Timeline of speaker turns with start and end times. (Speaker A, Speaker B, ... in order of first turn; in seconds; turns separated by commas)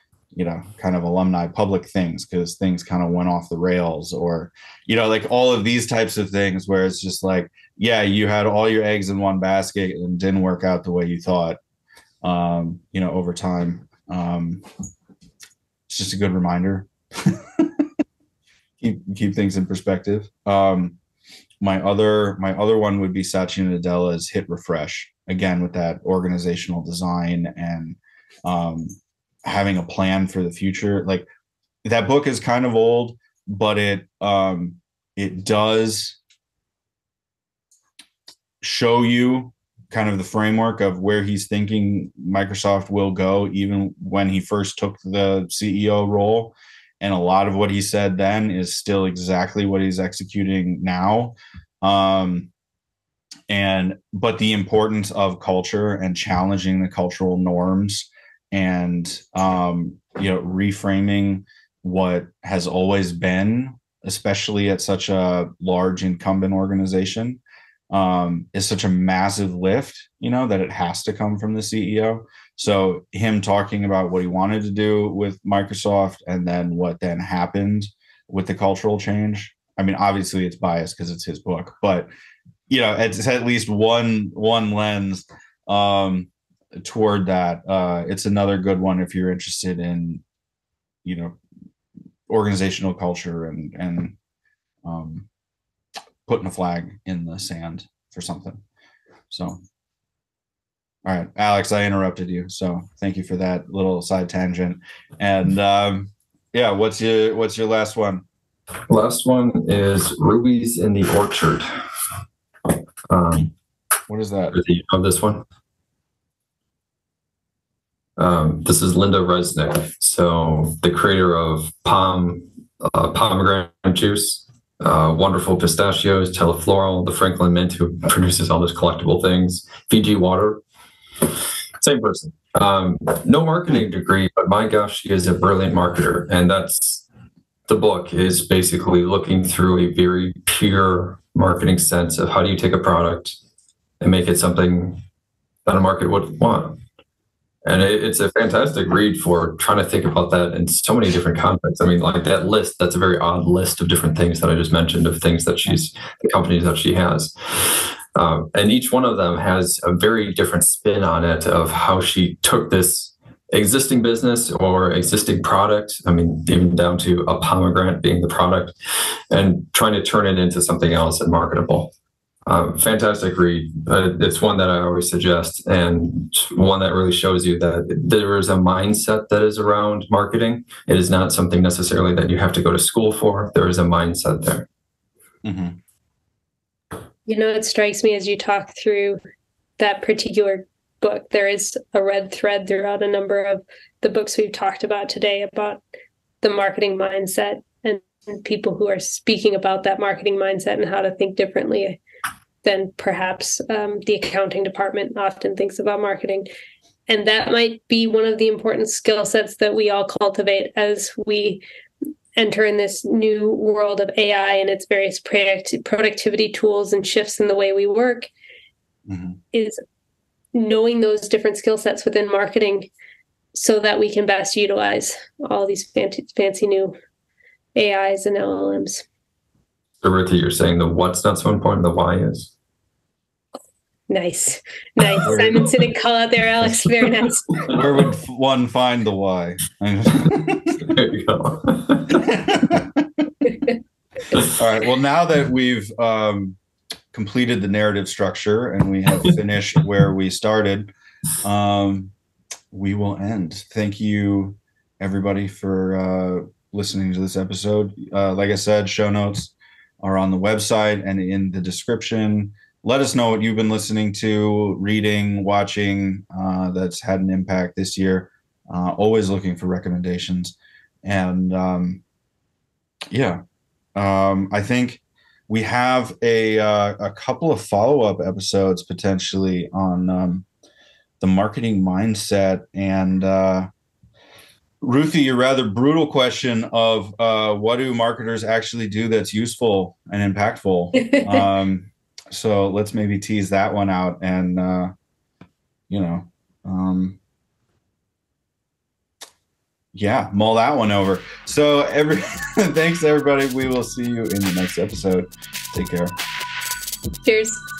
Speaker A: 0.3-11.6, Speaker A: 12.2-14.6, Speaker A: 15.9-17.9, Speaker A: 18.8-21.0, Speaker A: 21.6-31.3, Speaker A: 31.8-36.2, Speaker A: 38.6-52.5, Speaker A: 53.5-82.1, Speaker A: 82.7-90.2, Speaker A: 91.0-91.4, Speaker A: 92.3-94.2, Speaker A: 94.8-95.3, Speaker A: 96.3-98.6, Speaker A: 99.3-99.6, Speaker A: 101.0-108.2, Speaker B: 108.9-111.7, Speaker B: 113.1-113.5, Speaker A: 114.1-114.6, Speaker B: 114.5-115.5, Speaker B: 118.2-130.6, Speaker B: 131.2-137.1, Speaker B: 137.7-143.4, Speaker B: 144.0-145.0, Speaker B: 145.7-146.8, Speaker B: 147.7-168.7, Speaker B: 169.3-171.9, Speaker B: 172.5-184.7, Speaker A: 185.4-185.8, Speaker C: 187.3-189.2, Speaker C: 189.8-195.8, Speaker C: 196.4-202.0, Speaker C: 202.6-206.5, Speaker C: 207.1-211.6, Speaker C: 212.4-218.3, Speaker A: 219.1-219.4, Speaker C: 219.5-219.8, Speaker C: 220.5-222.9, Speaker C: 223.5-226.9, Speaker C: 227.8-229.0, Speaker B: 230.0-232.5, Speaker C: 234.1-237.8, Speaker A: 235.3-235.6, Speaker A: 237.7-240.9, Speaker B: 240.3-242.4, Speaker A: 242.2-243.3, Speaker A: 244.5-246.6, Speaker A: 247.1-250.9, Speaker A: 251.4-252.1, Speaker A: 252.7-272.0, Speaker A: 273.1-273.4, Speaker A: 274.0-280.5, Speaker A: 281.2-283.7, Speaker A: 284.8-294.9, Speaker C: 291.0-291.4, Speaker A: 295.9-297.2, Speaker A: 299.9-306.2, Speaker C: 307.2-307.6